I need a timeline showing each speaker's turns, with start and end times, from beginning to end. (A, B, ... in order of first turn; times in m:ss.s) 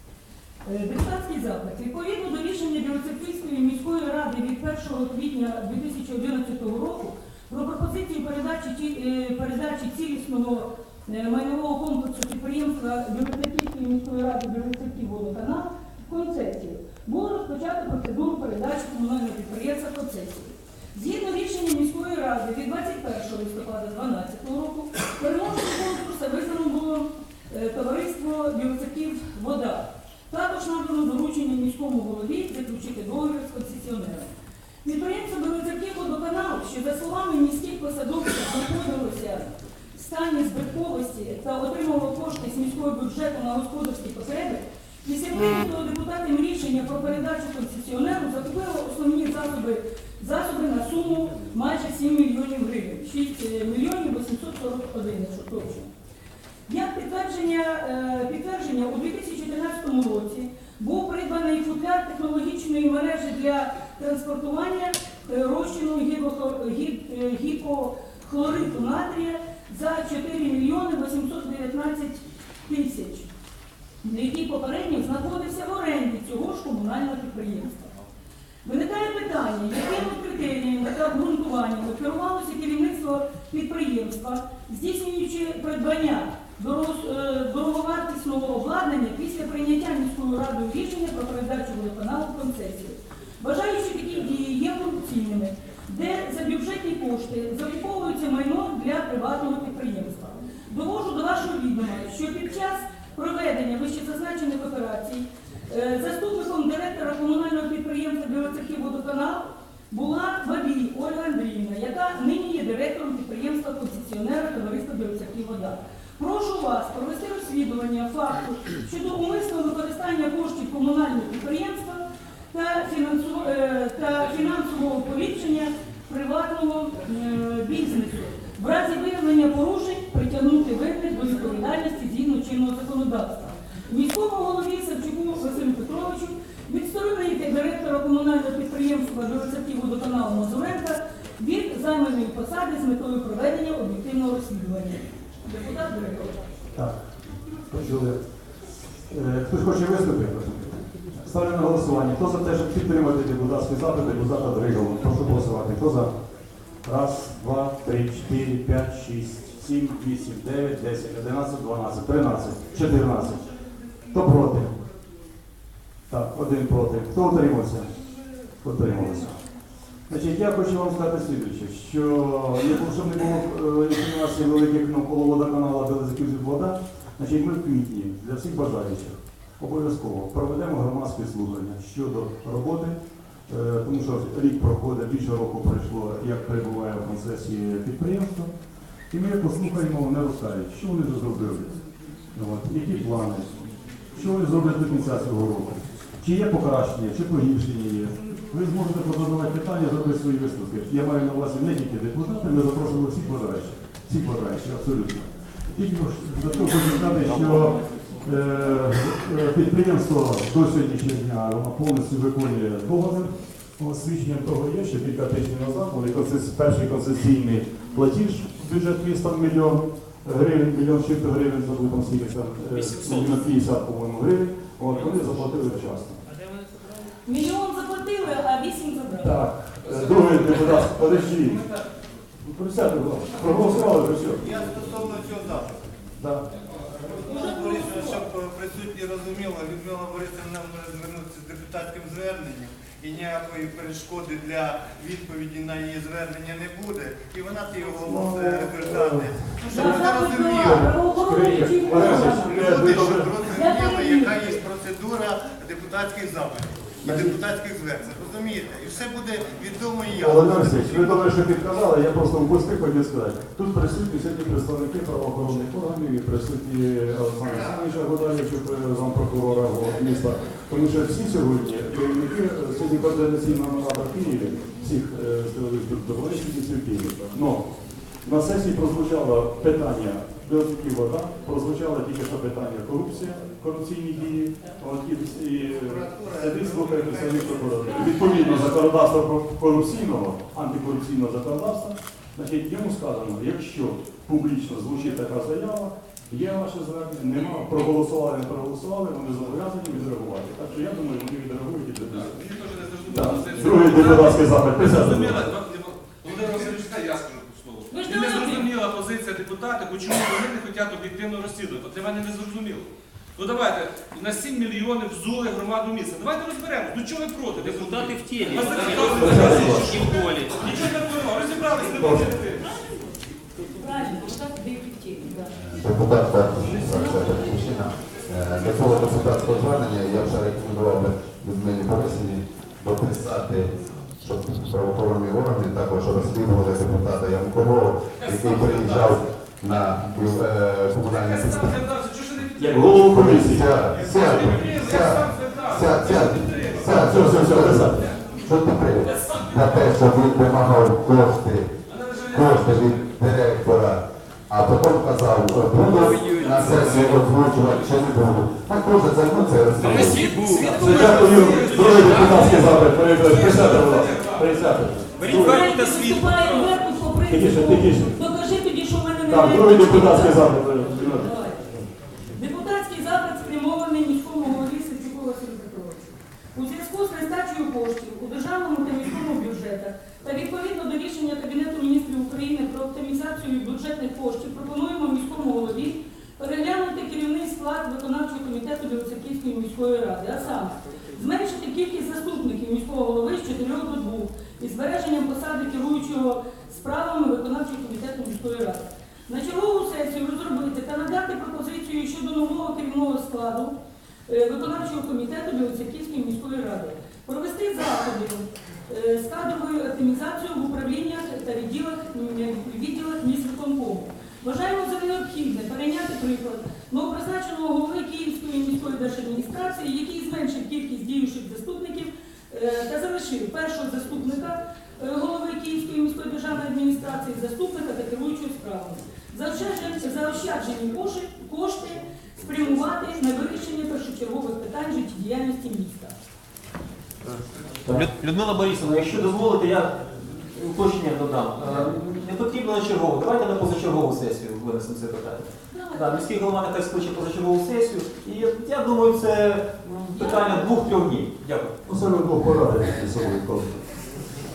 0:00.6-0:34.3 A
0:34.8-0:55.9 A
0:56.7-1:13.3 A
1:14.0-1:17.9 A
1:18.6-2:26.4 A
2:27.6-2:28.4 B
2:29.1-2:36.1 B
2:36.8-2:43.4 B
2:44.1-2:44.8 B
2:46.1-2:47.9 B
2:48.6-2:49.4 B
2:50.1-3:08.5 B
3:09.1-3:11.8 B
3:12.3-3:46.2 B
3:42.8-3:43.3 C
3:47.2-3:49.4 A
3:49.2-3:51.6 B
3:49.8-3:51.8 D
3:52.4-3:54.5 B
3:54.4-3:55.8 E
3:56.2-3:56.5 B
3:56.7-3:57.0 D
3:57.0-4:10.8 E
3:57.1-3:58.2 A
4:08.0-4:13.4 B
4:09.6-4:12.6 A
4:11.9-4:20.9 E
4:13.5-4:14.6 A
4:17.0-4:17.4 B
4:20.2-4:37.7 B
4:38.2-5:02.4 B
4:45.8-4:47.7 E
5:02.1-5:22.7 D
5:03.1-5:05.4 B
5:07.9-5:08.6 A
5:17.6-5:20.7 C
5:19.1-5:20.0 B
5:22.0-5:22.3 B
5:23.7-5:25.5 A
5:25.5-5:41.8 F
5:26.7-5:27.6 A
5:38.2-5:39.2 D
5:41.0-5:50.6 D
5:42.6-5:43.8 B
5:43.1-5:47.9 F
5:46.8-5:48.1 B
5:48.4-5:51.7 F
5:51.9-5:53.0 D
5:52.3-6:00.2 F
5:55.8-5:56.7 C
5:56.3-5:58.0 D
5:59.7-6:04.5 D
6:00.0-6:00.7 C
6:00.6-6:05.6 B
6:05.2-6:06.6 C
6:05.3-6:11.7 A
6:07.2-6:08.2 B
6:09.3-6:11.8 B
6:12.3-6:43.7 A
6:44.3-7:16.1 A
7:17.8-7:31.8 C
7:25.7-7:26.2 A
7:30.1-7:30.7 A
7:31.8-7:34.2 B